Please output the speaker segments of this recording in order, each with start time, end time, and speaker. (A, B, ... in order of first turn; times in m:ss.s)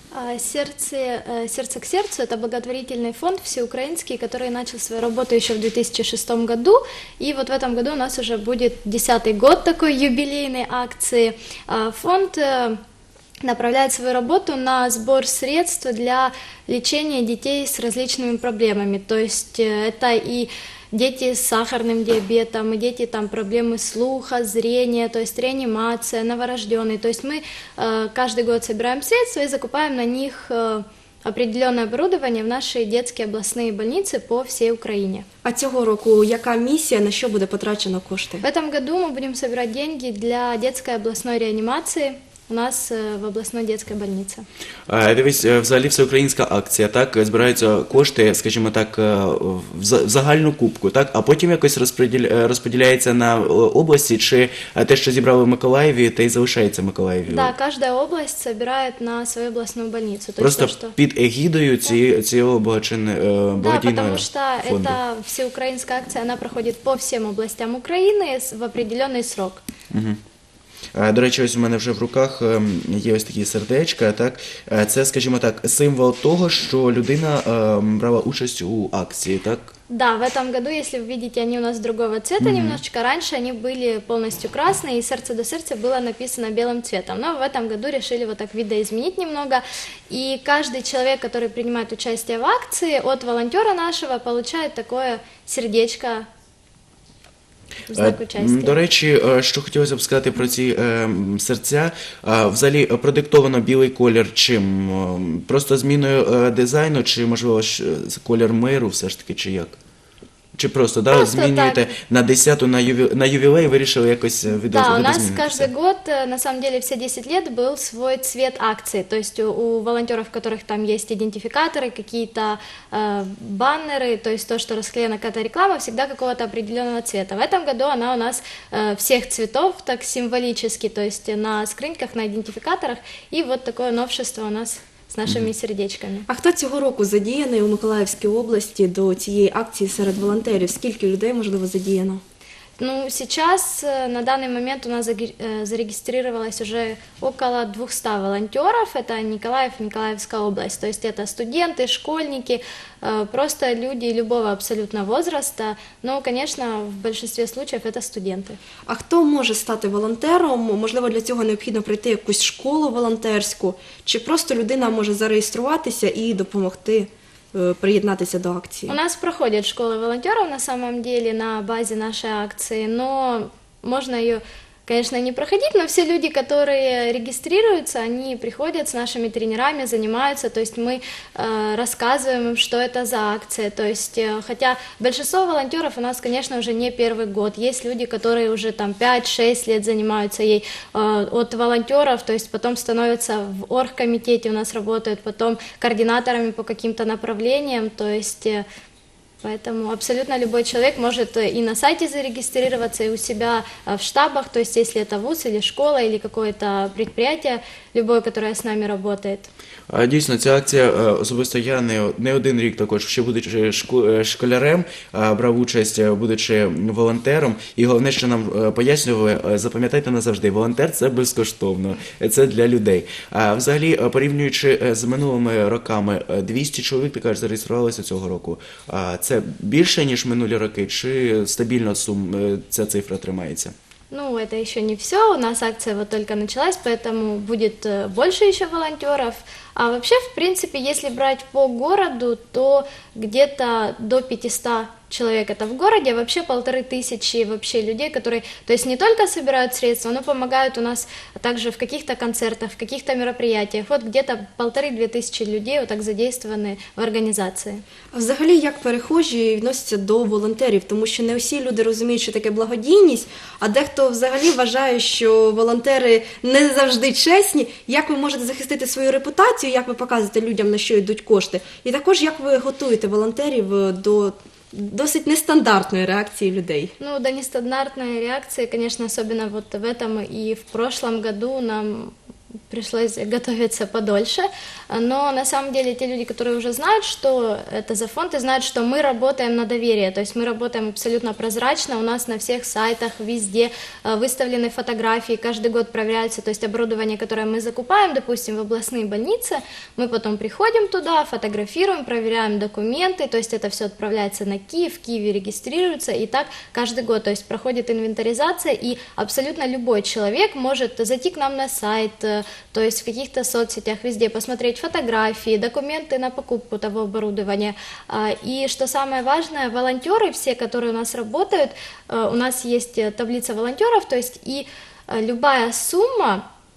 0:00.1-0:12.8 A
0:13.4-0:35.3 A
0:35.4-0:38.4 B
0:38.4-0:44.4 A
0:44.9-0:57.5 C
0:57.3-1:01.0 A
1:00.4-1:05.0 C
1:03.6-1:09.6 A
1:09.9-1:10.2 C
1:10.9-1:19.7 C
1:19.9-1:36.3 A
1:22.4-1:22.8 C
1:37.9-1:38.8 A
1:37.9-1:49.8 C
1:50.6-1:55.7 C
1:51.1-1:51.9 A
1:54.7-2:16.3 A
2:16.3-2:22.2 B
2:22.8-2:38.6 A
2:38.9-2:49.0 B
2:48.9-3:18.6 A
3:19.4-3:29.5 A
3:29.9-3:53.7 C
3:54.1-4:17.8 A
4:18.1-4:36.9 B
4:37.0-4:42.1 A
4:42.7-5:26.4 A